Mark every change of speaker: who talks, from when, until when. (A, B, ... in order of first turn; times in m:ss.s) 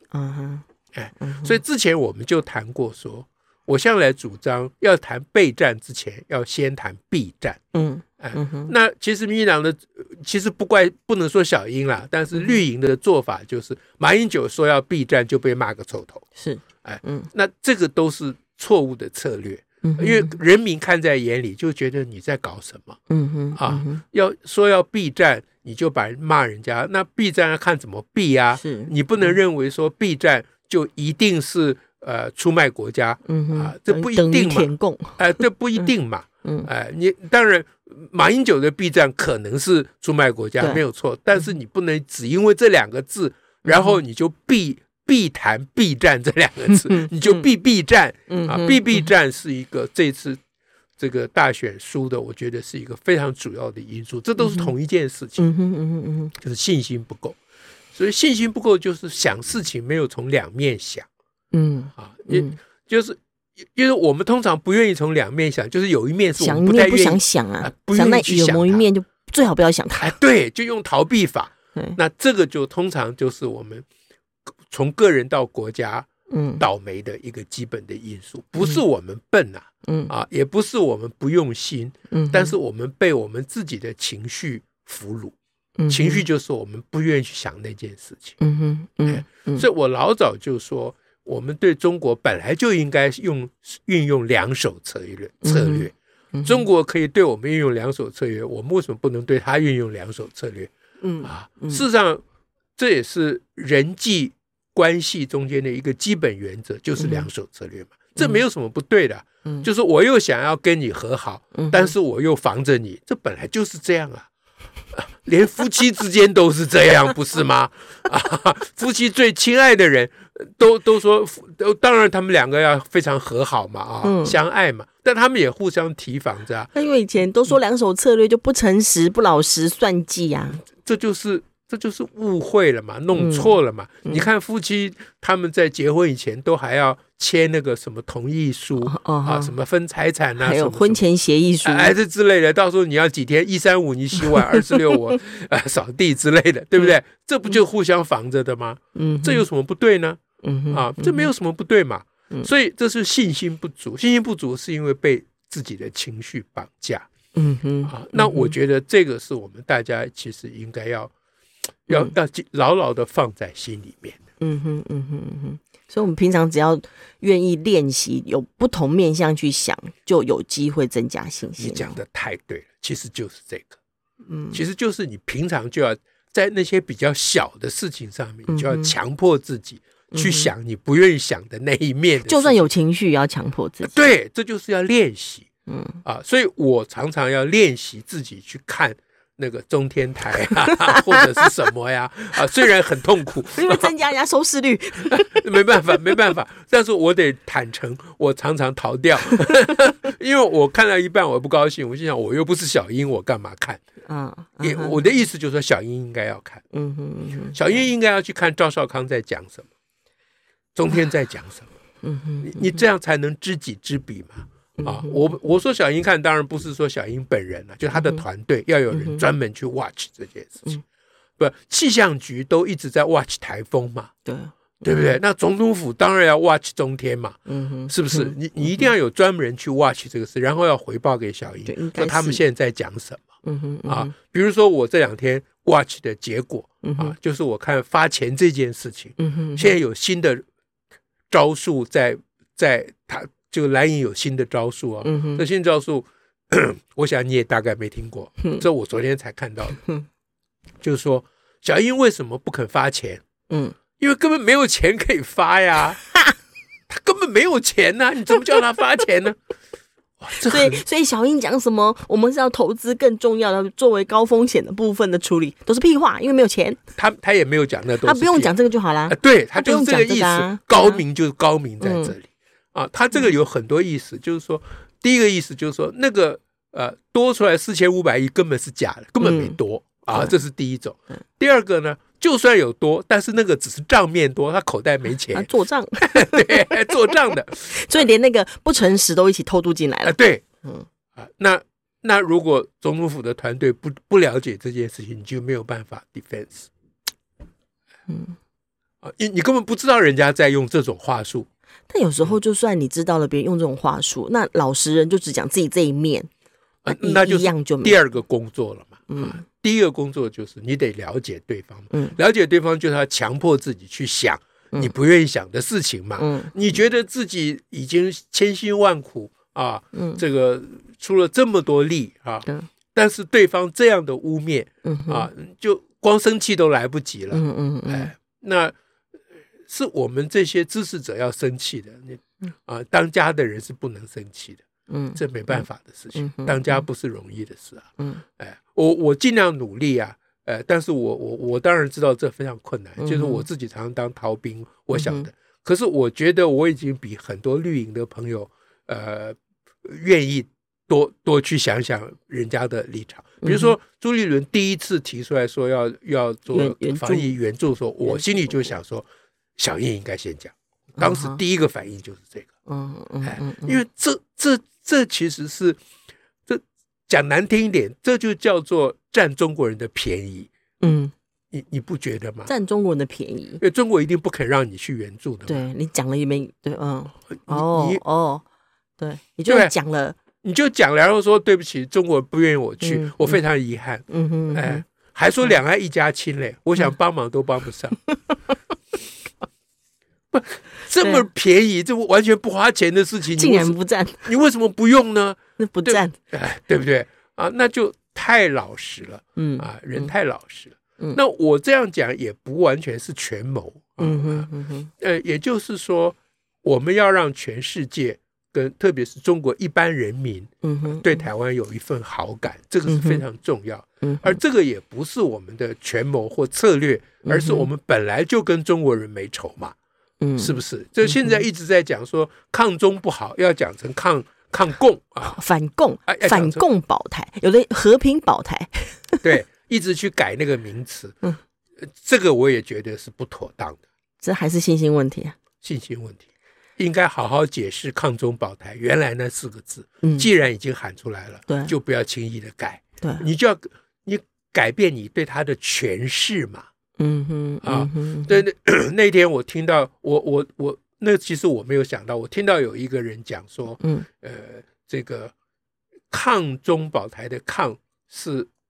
0:00.1-0:00.6 A
0:00.9-0:07.6 B
0:01.2-0:01.6 A
0:07.7-0:08.7 A
0:08.2-0:16.2 B
0:12.3-0:12.6 A
0:16.4-0:17.3 A
0:16.8-0:23.0 B
0:19.8-0:20.4 A
0:23.1-0:24.0 A
0:23.6-0:50.4 B
0:28.6-0:29.4 A
0:33.3-0:35.9 A
0:43.7-0:44.0 A
0:46.7-0:47.5 A
0:48.3-0:49.1 A
0:51.0-0:55.5 B
0:54.4-0:54.7 A
0:55.4-0:56.3 A
0:56.4-0:57.4 B
0:57.9-1:01.1 B
1:01.5-1:02.6 A
1:02.0-1:08.9 B
1:06.4-1:10.2 A
1:10.0-1:13.8 B
1:14.7-1:16.1 B
1:16.3-1:16.6 A
1:16.6-1:25.4 B
1:19.8-1:20.1 A
1:22.1-1:22.6 A
1:25.8-1:26.2 A
1:25.9-1:28.4 B
1:28.4-1:29.6 A
1:29.1-1:35.9 B
1:35.4-1:36.6 A
1:36.4-1:40.7 B
1:41.0-1:41.8 A
1:41.2-1:42.2 B
1:42.8-1:54.3 B
1:47.0-1:47.3 A
1:51.6-1:51.9 A
1:54.9-2:06.7 B
2:04.0-2:04.4 A
2:06.7-2:10.6 A
2:10.6-2:21.0 B
2:13.1-2:13.6 A
2:18.8-2:19.5 A
2:20.4-2:22.0 A
2:21.6-2:30.2 B
2:24.3-2:25.0 A
2:29.0-2:29.5 A
2:30.4-2:31.3 A
2:30.7-2:37.1 B
2:37.4-2:38.6 A
2:37.9-2:41.1 B
2:41.9-2:44.2 B
2:44.4-2:52.0 A
2:51.6-2:53.8 B
2:54.3-2:54.6 A
2:54.5-3:02.7 B
2:58.5-2:59.0 A
3:00.1-3:00.5 A
3:02.3-3:04.1 A
3:03.8-3:05.5 B
3:05.7-3:06.0 A
3:06.0-3:14.0 B
3:10.9-3:11.2 A
3:13.5-3:15.8 A
3:15.0-3:23.8 B
3:24.1-3:25.0 A
3:24.6-3:26.6 B
3:26.7-3:27.9 A
3:27.6-3:29.7 B
3:30.8-3:31.7 B
3:32.0-3:32.8 A
3:32.4-3:40.8 B
3:34.8-3:35.2 A
3:37.9-3:38.2 A
3:38.9-3:39.2 A
3:41.4-3:44.1 B
3:44.2-3:45.1 A
3:44.8-3:53.2 B
3:47.5-3:48.9 A
3:51.7-3:52.4 A
3:53.4-3:54.1 A
3:53.9-4:00.4 B
3:56.8-3:57.1 A
3:59.2-3:59.8 A
4:01.3-4:09.8 B
4:05.0-4:05.4 A
4:10.8-4:13.2 B
4:13.5-4:13.8 A
4:14.0-4:16.0 B
4:16.9-4:19.4 B
4:20.2-4:20.8 B
4:20.4-4:26.8 A
4:27.0-4:47.9 B
4:28.0-4:31.0 A
4:31.8-4:32.1 A
4:39.2-4:39.6 A
4:40.1-4:40.3 A
4:45.3-4:50.9 A
4:50.0-4:50.4 B
4:51.2-4:56.7 B
4:58.1-4:58.4 A
4:59.0-5:01.5 B
5:01.9-5:06.3 A
5:06.8-5:28.8 B
5:06.9-5:08.0 A
5:09.1-5:09.4 A
5:11.9-5:12.2 A
5:16.2-5:16.5 A
5:19.9-5:20.2 A
5:24.8-5:25.3 A
5:27.3-5:28.1 A
5:29.7-5:34.6 B
5:34.9-5:36.8 A
5:35.2-5:59.1 B
5:43.0-5:43.4 A
5:45.0-5:45.3 A
5:53.4-5:53.8 A
5:56.5-5:57.3 A
5:58.1-5:58.8 A
5:59.6-6:02.5 B
6:01.0-6:01.4 A
6:02.7-6:03.8 A
6:03.2-6:05.8 B
6:06.5-6:10.5 B
6:10.8-6:11.1 A
6:11.5-6:12.5 B
6:12.5-6:13.6 A
6:13.6-6:15.7 B
6:15.5-6:18.4 A
6:17.5-6:18.0 B
6:19.0-6:20.2 A
6:19.5-6:19.7 B
6:20.4-6:28.0 B
6:22.8-6:23.4 A
6:24.1-6:24.8 A
6:30.3-6:59.8 B
6:31.0-6:31.2 A
6:33.3-6:34.3 A
6:35.6-6:36.2 A
6:39.4-6:40.1 A
6:44.0-6:44.9 A
6:50.6-6:51.2 A
6:52.9-6:53.2 A
6:54.0-6:54.4 A
6:57.2-6:57.7 A
7:00.2-7:01.4 A
7:00.4-7:05.4 B
7:05.2-7:09.2 A
7:06.1-7:06.6 B
7:09.2-7:11.2 B
7:11.9-7:13.8 B
7:14.2-7:15.4 A
7:15.6-7:26.7 B
7:20.0-7:20.3 A
7:21.5-7:21.7 A
7:27.0-7:28.4 A
7:27.6-7:35.3 B
7:36.1-7:38.5 B